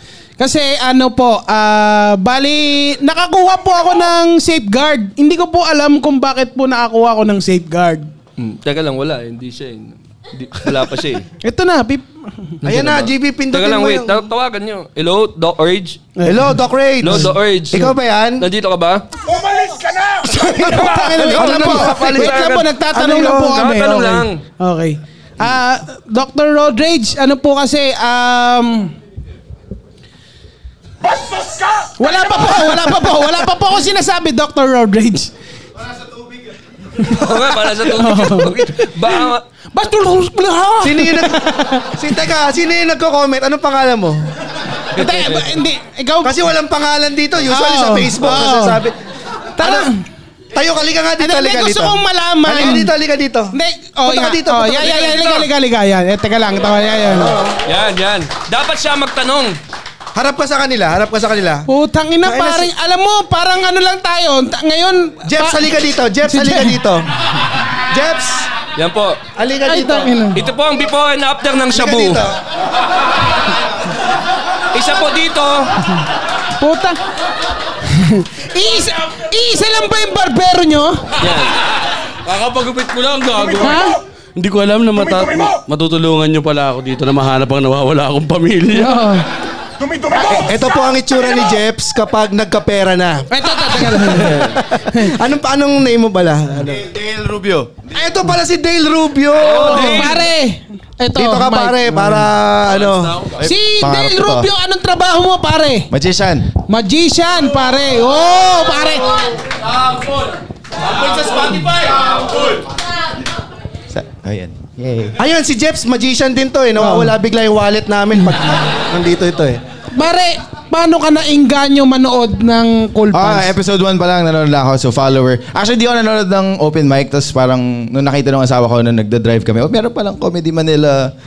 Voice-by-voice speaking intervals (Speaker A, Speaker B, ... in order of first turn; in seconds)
Speaker A: 0.4-8.1, 11.4-12.5, 16.2-16.6, 20.4-28.9, 32.0-35.3, 37.0-37.2, 37.8-41.9, 45.0-46.4, 47.5-48.8, 49.6-50.0, 51.2-52.9, 53.5-57.3, 61.7-65.7, 66.2-66.8, 69.7-70.4, 76.6-77.0, 77.9-81.0, 83.6-84.0, 88.7-89.2, 93.3-95.1, 99.7-101.8, 103.4-105.9, 106.7-109.3, 116.8-117.1, 120.0-123.5
Speaker B: 8.4-11.2, 12.6-16.0, 17.0-19.0, 20.1-22.7, 23.5-24.4, 37.1-39.4, 45.0-45.5, 54.9-55.5, 57.7-59.6, 68.8-69.2, 70.3-72.2, 74.7-75.7, 81.2-81.5, 99.4-100.2
Speaker C: 12.6-14.2, 16.3-18.5, 20.5-23.7, 40.8-41.4, 41.9-44.3, 46.2-49.0, 49.6-49.9, 50.5-53.5, 54.1-55.3, 57.1-57.6, 60.1-61.6, 62.2-62.7, 65.3-67.0, 67.9-68.5, 69.4-70.1, 71.7-72.3, 90.2-96.9, 97.9-100.1, 101.2-103.2, 115.2-119.6
Speaker D: 82.3-83.8, 84.4-89.0
Speaker E: 96.8-97.7, 103.3-104.5, 105.9-106.5, 113.9-115.1, 123.1-131.1